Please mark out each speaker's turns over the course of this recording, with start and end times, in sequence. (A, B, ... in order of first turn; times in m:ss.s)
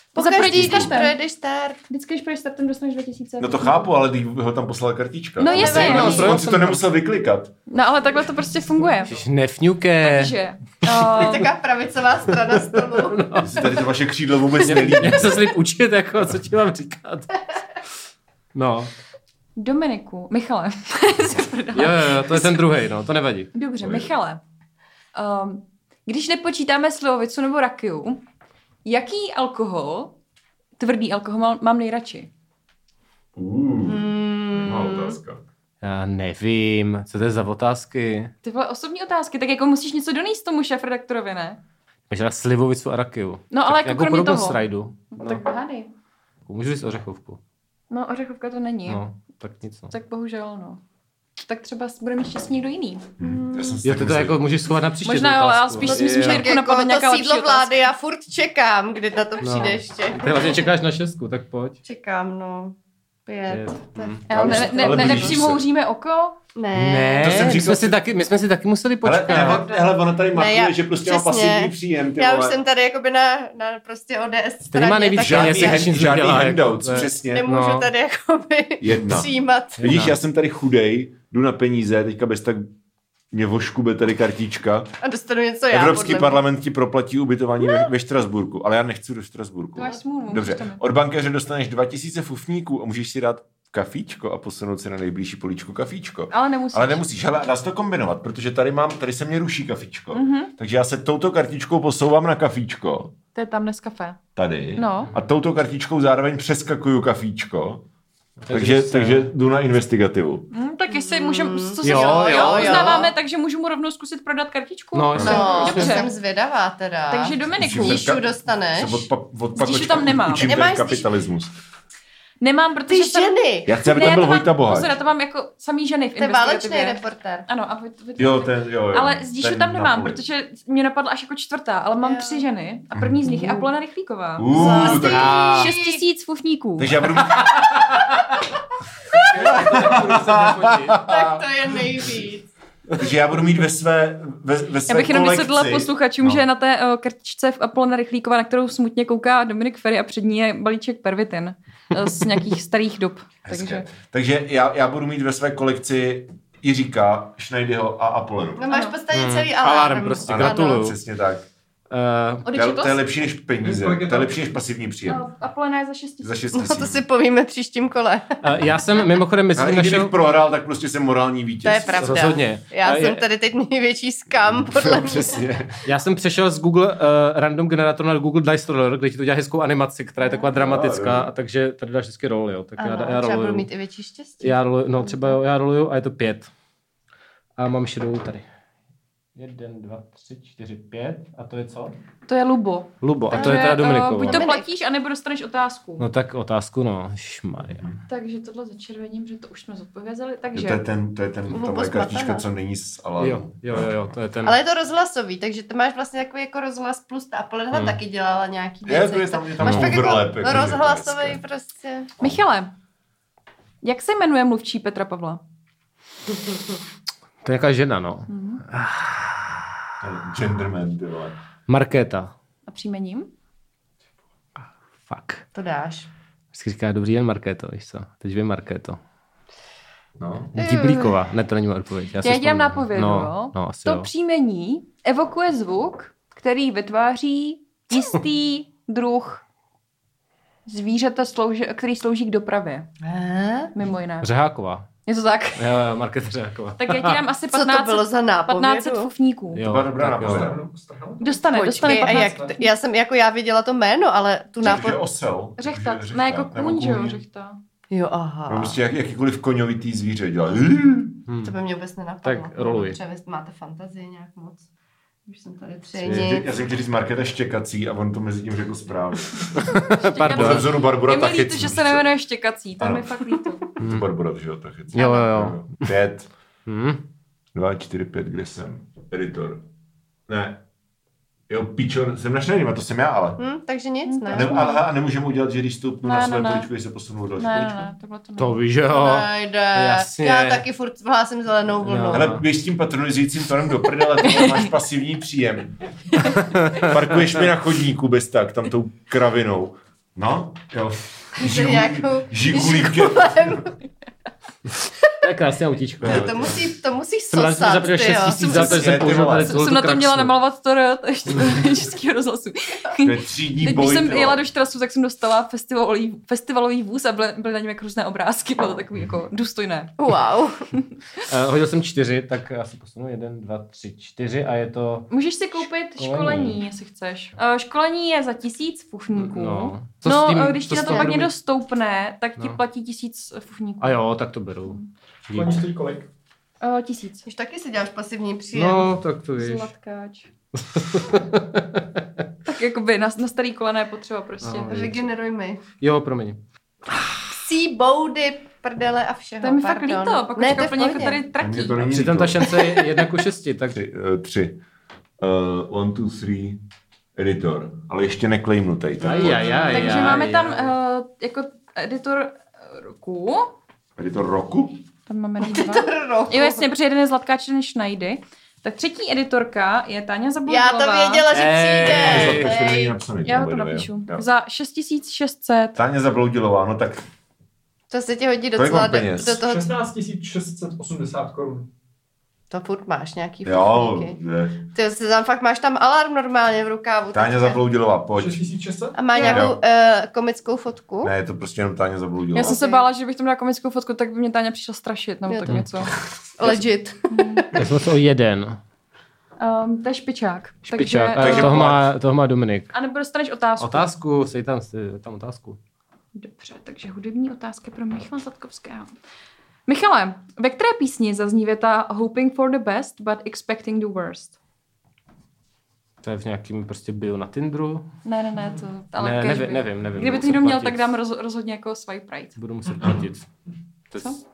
0:00.1-0:01.2 A
0:00.1-0:01.8 B
0:00.4-0:01.0 C
0:01.9-0:03.9 A
0:03.4-0:07.5 C
0:05.4-0:06.4 A
0:05.4-0:06.8 D
0:05.7-0:06.2 B
0:07.7-0:09.2 A
0:09.1-0:10.4 D
0:10.0-0:11.5 A
0:10.9-0:13.2 B
0:12.5-0:13.6 D
0:13.4-0:15.5 C
0:14.6-0:17.3 D
0:18.5-0:18.9 D
0:19.6-0:22.6 A
0:21.7-0:23.5 D
0:23.5-0:24.4 A
0:23.8-0:24.1 C
0:25.1-0:28.2 A
0:28.8-0:30.1 A
0:30.8-0:32.3 A
0:33.4-0:35.4 C
0:33.8-0:35.2 B
0:35.8-0:38.3 D
0:38.4-0:41.6 A
0:42.1-0:45.4 D
0:43.5-0:45.9 A
0:46.5-0:47.4 D
0:47.9-0:49.0 A
0:48.9-0:49.9 D
0:49.9-0:50.8 A
0:51.4-0:53.1 A
0:53.2-0:54.4 C
0:53.2-0:53.8 B
0:53.8-0:56.5 D
0:55.0-0:57.9 A
0:55.8-1:00.6 B
0:59.4-1:01.8 D
1:01.8-1:05.2 B
1:03.5-1:04.2 D
1:04.3-1:05.6 C
1:04.3-1:06.4 A
1:06.5-1:07.5 B
1:06.7-1:09.6 D
1:07.2-1:08.0 C
1:09.0-1:12.6 C
1:09.3-1:09.9 A
1:10.3-1:15.9 B
1:14.7-1:17.9 D
1:15.2-1:17.5 C
1:17.3-1:20.0 B
1:18.8-1:22.7 C
1:19.8-1:20.2 D
1:23.3-1:24.9 C
1:25.0-1:26.4 B
1:25.7-1:43.1 C
1:29.8-1:30.8 A
1:36.3-1:37.0 A
1:40.1-1:40.5 A
1:43.3-1:44.2 A
1:44.4-1:47.8 C
1:44.8-1:45.1 A
1:48.4-1:49.3 D
1:48.5-1:50.5 C
1:50.5-1:56.1 A
1:50.9-1:53.1 B
1:51.8-1:53.0 D
1:54.9-1:56.0 D
1:55.1-1:55.4 C
1:55.2-1:59.1 B
1:57.1-1:58.2 A
1:57.6-2:01.5 C
1:59.5-2:00.5 A
2:00.4-2:01.1 B
2:02.4-2:17.0 A
2:02.9-2:03.8 B
2:03.6-2:05.0 C
2:06.2-2:07.4 B
2:08.2-2:10.2 C
2:12.0-2:12.4 B
2:12.9-2:13.2 C
2:14.4-2:15.6 C
2:14.5-2:16.0 B
2:15.1-2:15.7 D
2:16.8-2:17.9 C
2:19.1-2:21.0 D
2:19.4-2:22.2 C
2:21.0-2:22.5 B
2:23.0-2:26.4 C
2:24.9-2:33.9 A
2:33.4-2:38.6 C
2:38.6-2:40.8 B
2:38.7-2:39.0 A
2:39.1-2:41.0 D
2:40.2-2:41.4 C
2:41.9-2:42.5 D
2:42.4-2:43.0 A
2:42.5-2:45.2 C
2:43.6-2:44.4 E
2:45.0-2:46.4 A
2:46.2-2:47.0 C
2:46.5-2:48.4 B
2:48.4-2:50.2 D
2:49.5-2:52.2 C
2:51.6-2:55.4 B
2:52.0-2:53.2 D
2:54.4-2:55.8 C
2:55.8-3:03.7 D
3:00.5-3:01.3 C
3:02.8-3:05.3 B
3:04.4-3:06.5 D
3:07.6-3:08.4 D
3:09.3-3:12.0 D
3:12.3-3:16.1 A
3:13.0-3:14.4 D
3:13.3-3:14.7 B
3:16.0-3:17.8 D
3:17.7-3:18.0 C
3:18.1-3:20.8 A
3:20.5-3:24.1 C
3:21.5-3:22.4 B
3:23.2-3:24.6 D
3:24.4-3:32.1 B
3:27.7-3:28.0 D
3:28.8-3:31.4 C
3:29.6-3:29.9 D
3:32.2-3:32.7 A
3:33.8-3:35.4 A
3:37.4-3:39.5 D
3:38.3-3:38.6 A
3:40.0-3:41.4 C
3:41.7-3:42.3 D
3:42.7-3:43.3 A
3:45.1-3:45.4 D
3:45.5-3:46.1 B
3:46.5-3:49.0 D
3:50.2-3:50.5 C
3:50.5-3:51.2 B
3:50.6-3:54.1 D
3:52.2-3:59.4 A
4:00.6-4:02.9 A
4:03.0-4:03.7 B
4:03.7-4:04.3 A
4:04.2-4:04.9 D
4:05.0-4:05.6 A
4:05.6-4:07.2 D
4:06.8-4:09.6 A
4:07.5-4:09.1 B
4:09.5-4:10.5 D
4:09.6-4:10.6 C
4:10.2-4:12.5 E
4:11.2-4:12.7 A
4:11.5-4:15.0 B
4:14.6-4:17.2 C
4:15.6-4:17.6 A
4:17.9-4:18.8 B
4:18.5-4:21.2 C
4:21.3-4:21.6 D
4:21.4-4:24.6 B
4:22.2-4:23.0 D
4:25.3-4:26.5 B
4:26.0-4:26.4 D
4:26.0-4:29.7 C
4:29.6-4:30.7 D
4:29.9-4:33.7 A
4:30.2-4:32.1 C
4:32.8-4:33.2 C
4:33.8-4:36.3 C
4:33.8-4:34.0 D
4:34.9-4:35.2 A
4:34.9-4:35.9 D
4:36.6-4:37.0 D
4:37.5-4:39.6 C
4:40.3-4:40.6 C
4:41.5-4:43.4 C
4:43.4-4:44.5 B
4:44.0-4:44.8 A
4:44.3-4:47.9 C
4:46.0-4:46.7 A
4:47.4-4:48.6 A
4:48.4-4:50.6 D
4:48.9-4:52.4 B
4:51.8-4:52.4 D
4:52.1-4:55.8 C
4:56.3-4:56.9 D
4:56.7-5:03.7 C
5:01.4-5:03.7 B
5:05.2-5:06.6 D
5:06.0-5:09.1 B
5:06.0-5:06.4 C
5:07.3-5:10.3 D
5:08.4-5:09.6 C
5:09.3-5:20.0 A
5:13.0-5:14.4 C
5:20.0-5:20.6 B
5:20.7-5:21.2 A
5:21.3-5:26.6 D
5:25.1-5:34.0 A
5:29.2-5:31.3 D
5:30.9-5:31.1 B
5:33.8-5:34.8 D
5:35.3-5:35.7 D
5:35.3-5:36.1 E
5:36.6-5:37.3 A
5:37.2-5:39.0 B
5:38.5-5:39.7 D
5:39.4-5:40.3 A
5:40.5-5:42.2 D
5:42.4-5:44.9 A
5:44.4-5:45.0 D
5:44.7-5:45.6 B
5:45.8-5:46.4 D
5:47.3-5:51.2 B
5:49.4-5:52.0 A
5:51.3-5:52.6 C
5:51.8-5:53.8 D
5:53.7-5:54.6 C
5:55.2-5:56.6 C
5:57.2-6:00.2 C
5:59.0-6:00.7 D
5:59.3-6:03.5 A
6:04.0-6:04.8 C
6:05.1-6:11.2 A
6:05.4-6:06.7 B
6:10.5-6:12.9 B
6:11.3-6:12.6 D
6:11.8-6:14.2 C
6:13.2-6:15.8 A
6:15.7-6:17.0 C
6:17.9-6:19.7 B
6:18.5-6:19.4 C
6:19.4-6:21.7 E
6:22.5-6:24.1 B
6:23.4-6:24.6 C
6:24.7-6:27.6 B
6:27.1-6:28.4 C
6:28.2-6:29.0 E
6:28.9-6:31.1 B
6:29.1-6:29.5 A
6:29.2-6:29.6 C
6:31.0-6:32.6 C
6:32.3-6:35.9 A
6:32.4-6:32.8 B
6:35.3-6:35.6 B
6:36.4-6:37.5 B
6:37.1-6:37.5 A
6:37.5-6:38.6 D
6:39.4-6:41.7 A
6:40.7-6:42.7 D
6:41.2-6:41.9 C
6:42.7-6:43.9 A
6:43.6-6:45.6 D
6:46.1-6:48.9 A
6:49.7-6:54.3 A
6:56.0-6:57.9 D
6:58.0-7:02.4 A
6:59.0-7:00.9 D
7:02.4-7:03.3 D
7:03.9-7:04.2 D